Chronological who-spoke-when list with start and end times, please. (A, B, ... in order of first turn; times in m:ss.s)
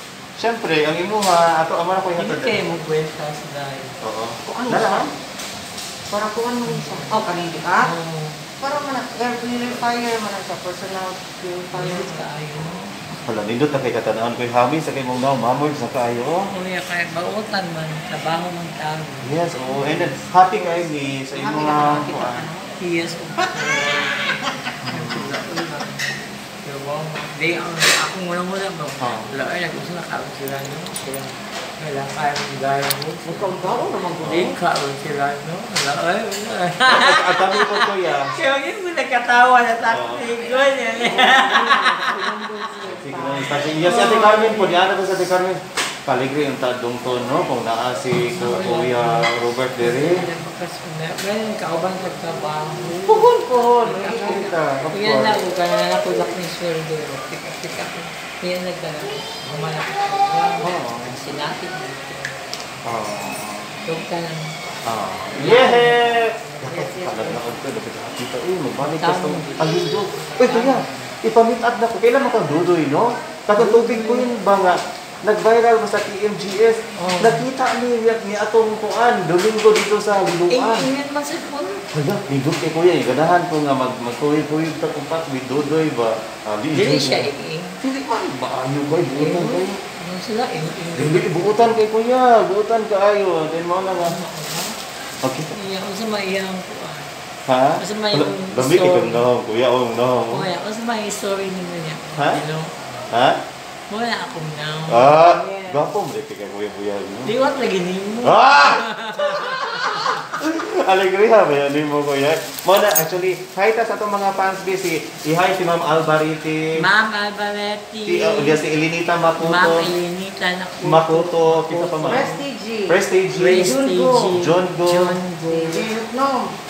0:00.4-0:02.6 A
0:02.2-0:04.0 B
0:04.0-0:05.1 A
0:04.4-0:05.1 C
0:06.1-0:07.9 C
0:06.6-0:07.2 B
0:07.8-0:08.4 B
0:08.6-0:12.2 C
0:11.7-0:12.9 B
0:13.2-0:16.5 A
0:16.5-0:20.7 B
0:19.2-0:22.5 A
0:21.3-0:22.7 C
0:21.6-0:22.2 B
0:22.8-0:42.1 B
0:24.8-0:25.3 A
0:29.0-0:29.3 A
0:33.2-0:34.5 C
0:34.2-0:34.6 A
0:36.8-0:38.3 A
0:39.8-0:40.4 A
0:41.0-0:44.2 C
0:42.8-0:50.2 A
0:43.8-0:44.8 B
0:48.2-1:02.4 B
0:53.0-0:55.4 A
1:00.6-1:01.2 A
1:02.8-1:03.7 A
1:03.8-1:04.5 B
1:04.8-1:20.9 A
1:05.3-1:07.6 B
1:08.8-1:11.2 B
1:13.5-1:14.3 B
1:17.0-1:17.4 B
1:20.5-1:21.8 B
1:21.9-1:27.3 A
1:26.7-1:27.8 B
1:27.8-1:29.8 A
1:29.1-1:31.8 B
1:30.9-1:34.2 A
1:34.0-1:34.8 B
1:35.2-1:35.5 A
1:35.5-1:37.1 B
1:37.5-1:40.5 A
1:37.8-1:39.3 B
1:40.3-1:43.0 B
1:42.2-1:42.4 A
1:43.1-1:43.4 A
1:43.9-1:45.2 B
1:44.9-1:47.3 A
1:45.2-1:45.8 C
1:47.2-1:50.3 B
1:48.2-1:56.6 A
1:56.8-1:58.6 B
1:58.0-1:59.9 A
1:59.4-2:02.4 B
2:00.8-2:02.3 A
2:02.1-2:03.0 C
2:02.9-2:03.7 A
2:03.4-2:05.9 B
2:03.5-2:04.4 C
2:04.3-2:05.2 A
2:05.4-2:06.5 C